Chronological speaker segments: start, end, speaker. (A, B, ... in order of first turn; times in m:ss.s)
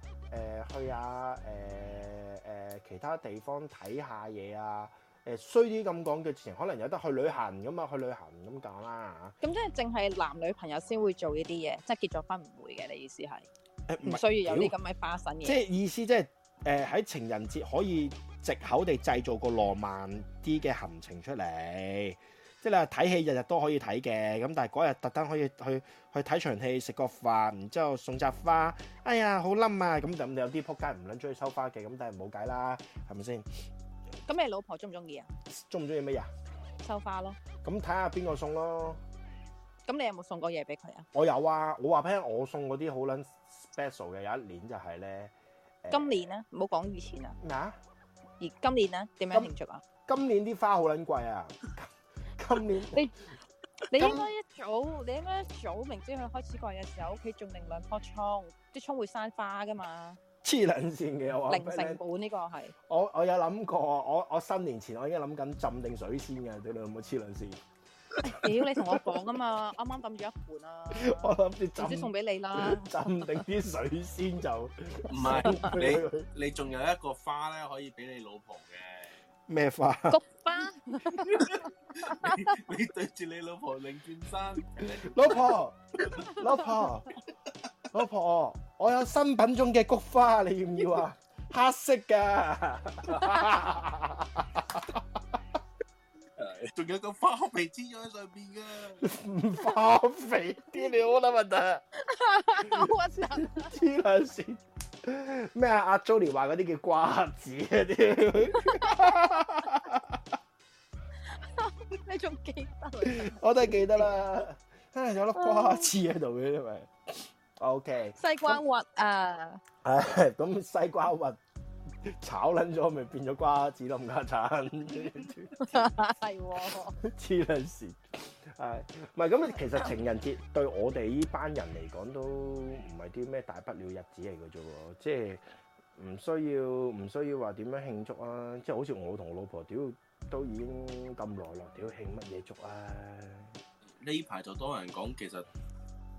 0:00.3-0:09.4 A
0:09.4-0:13.5 B
0:13.9-0:14.7 A
0:14.0-0:15.6 B
0:15.4-0:33.5 A
0:34.3-0:35.3 B
0:35.5-0:36.3 A
0:36.8-0:37.4 B
0:37.6-0:39.0 A
0:39.9-0:41.1 B
0:41.1-0:46.3 A
0:45.9-0:47.4 B
0:47.4-0:47.8 A
0:48.4-0:49.8 B
0:50.1-0:53.1 A
0:52.9-0:53.2 B
0:53.9-1:00.2 B
0:54.0-0:54.3 A
1:00.4-1:02.0 A
1:01.5-1:02.7 B
1:02.9-1:07.6 A
1:08.2-1:13.4 B
1:10.9-1:16.3 A
1:15.1-1:19.2 C
1:15.3-1:15.8 B
1:19.5-1:20.2 A
1:20.1-1:22.4 B
1:21.2-1:25.6 C
1:25.0-1:27.1 A
1:27.9-1:35.0 A
1:36.4-1:39.0 C
1:39.0-1:41.8 A
1:42.0-1:43.7 B
1:42.6-1:50.2 A
1:48.6-1:49.0 B
1:51.4-1:54.1 B
1:53.0-1:58.6 A
1:55.4-1:55.9 B
1:58.2-1:59.6 B
1:59.8-2:01.4 A
2:02.1-2:05.9 A
2:05.6-2:07.0 B
2:07.0-2:15.5 A
2:16.0-2:23.6 A
2:24.0-2:25.5 C